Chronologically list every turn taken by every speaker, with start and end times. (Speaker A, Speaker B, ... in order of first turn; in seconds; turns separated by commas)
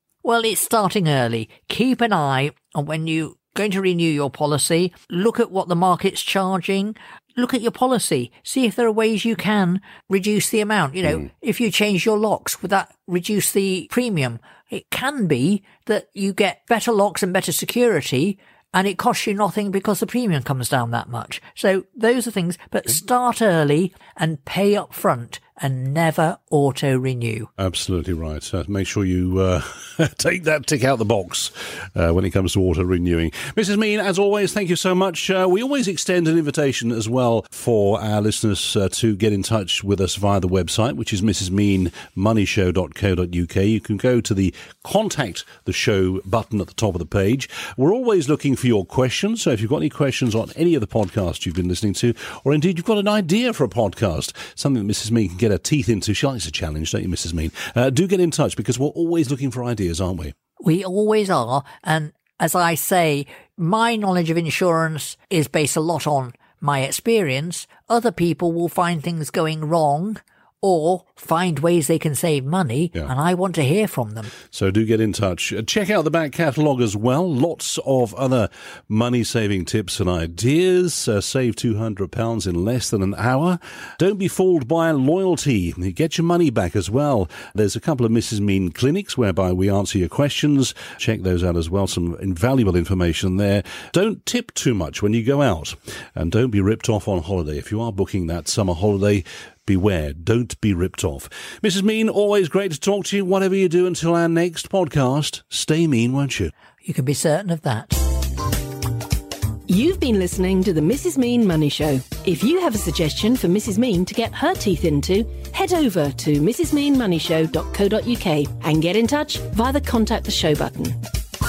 Speaker A: 0.2-27.5, Speaker B: 27.6-60.3, Speaker A: 60.6-74.3, Speaker B: 74.5-106.5, Speaker A: 106.8-108.0, Speaker C: 109.7-121.0